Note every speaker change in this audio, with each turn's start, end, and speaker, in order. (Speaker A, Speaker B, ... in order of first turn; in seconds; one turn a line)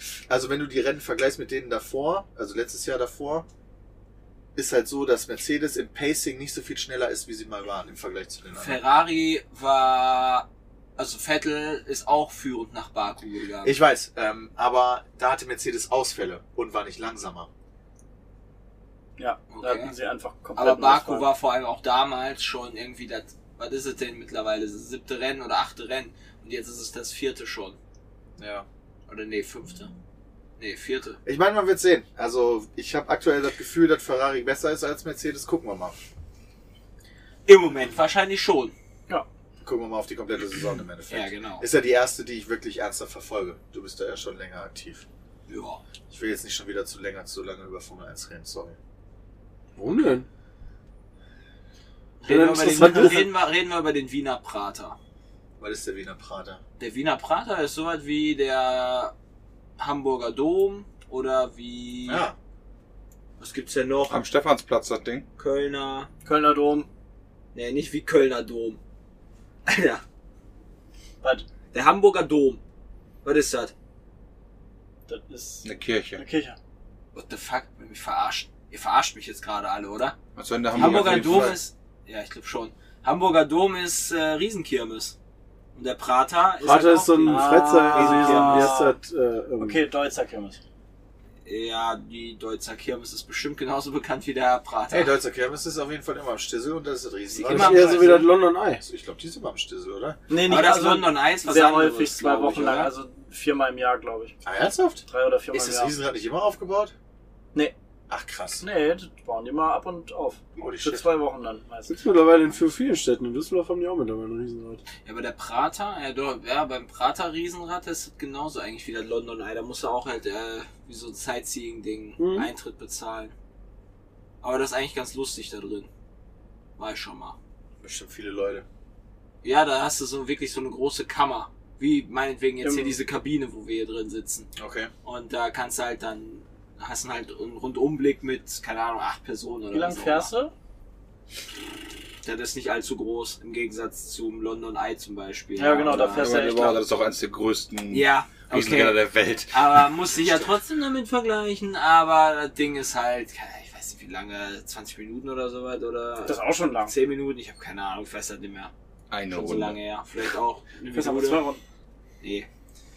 Speaker A: 0.3-3.5
Speaker A: 4.5-8.8
Speaker B: 8.6-13.8
Speaker A: 13.6-17.5
Speaker C: 19.2-21.3
Speaker B: 19.5-19.9
Speaker B: 20.6-27.8
Speaker A: 28.4-28.7
Speaker B: 29.1-29.9
Speaker B: 30.6-31.2
Speaker A: 31.2-36.0
Speaker B: 37.5-38.8
Speaker A: 39.6-45.1
Speaker B: 41.1-41.7
Speaker B: 45.5-45.8
Speaker A: 46.1-48.8
Speaker D: 49.8-50.3
Speaker B: 52.2-55.0
Speaker D: 52.3-53.3
Speaker A: 55.6-56.6
Speaker B: 56.8-59.1
Speaker B: 59.8-62.3
Speaker A: 62.1-62.4
Speaker B: 63.4-64.2
Speaker E: 64.1-65.3
Speaker B: 65.4-66.1
Speaker C: 66.2-66.9
Speaker B: 67.5-68.8
Speaker B: 69.7-70.0
Speaker B: 71.7-72.6
Speaker B: 73.2-73.7
Speaker C: 75.1-76.6
Speaker E: 75.6-76.2
Speaker B: 77.1-80.2
Speaker E: 80.4-81.6
Speaker B: 80.7-85.2
Speaker C: 80.8-81.2
Speaker B: 85.8-88.8
Speaker D: 86.6-89.8
Speaker C: 87.2-89.0
Speaker C: 89.6-90.6
Speaker B: 91.5-95.2
Speaker A: 94.9-100.2
Speaker B: 97.3-98.3
Speaker D: 97.5-98.8
Speaker C: 100.3-104.4
Speaker B: 100.4-102.9
Speaker A: 104.5-106.9
Speaker C: 105.1-106.0
Speaker A: 108.1-108.7
Speaker C: 108.6-112.0
Speaker A: 110.6-111.1
Speaker D: 111.9-114.8
Speaker B: 115.0-123.3
Speaker D: 122.2-122.5
Speaker B: 124.4-125.9
Speaker B: 126.8-127.4
Speaker A: 127.8-128.7
Speaker B: 129.4-134.5
Speaker C: 132.6-133.0
Speaker A: 134.6-134.9
Speaker B: 135.0-140.3
Speaker C: 139.7-140.5
Speaker B: 142.2-146.8
Speaker C: 145.6-146.8
Speaker E: 146.2-149.6
Speaker B: 147.9-158.7
Speaker C: 156.2-156.9
Speaker E: 159.1-159.8
Speaker B: 159.3-161.4
Speaker C: 160.9-161.6
Speaker B: 162.2-162.5